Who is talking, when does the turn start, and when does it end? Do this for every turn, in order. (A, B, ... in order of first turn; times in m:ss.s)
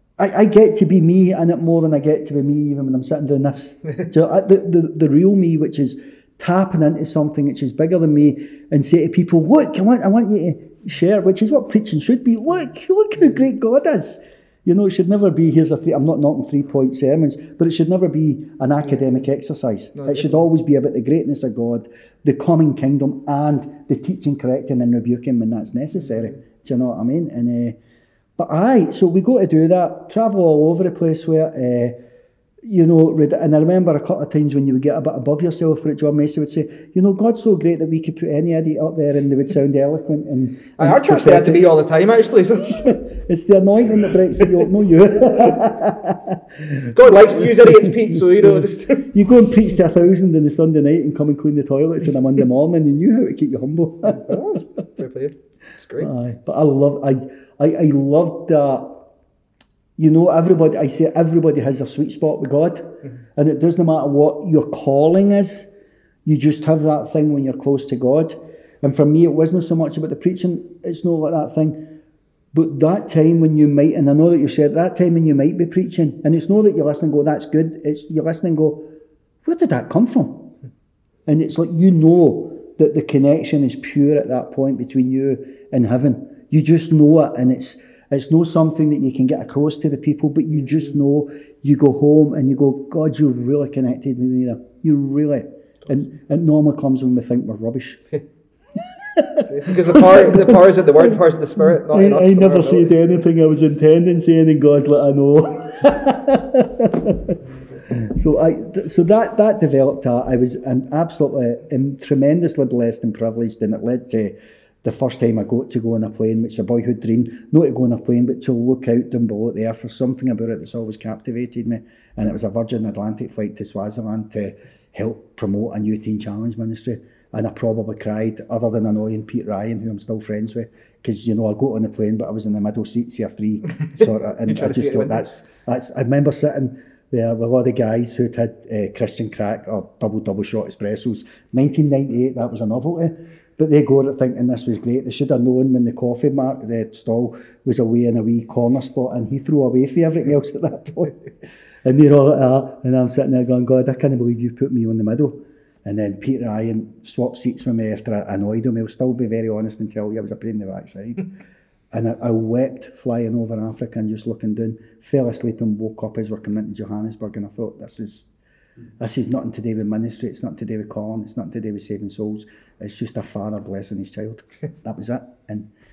0:00.2-0:27.8 A
0:20.0-0:20.4 B
0:28.4-0:32.0 A
0:32.6-0:41.7 A
0:40.8-0:42.9 B
0:42.7-0:54.4 A
0:46.8-0:49.1 B
0:54.0-0:56.1 B
0:56.0-0:59.0 A
1:00.0-1:05.7 A
1:06.2-1:11.8 A
1:12.5-1:18.8 A
1:19.4-1:20.5 A
1:21.3-1:38.0 A
1:39.1-1:47.4 A
1:39.5-1:42.9 B
1:47.9-2:31.2 A
2:14.5-2:15.2 B
2:31.8-2:41.3 A
2:41.9-2:48.3 A
2:49.0-2:55.7 A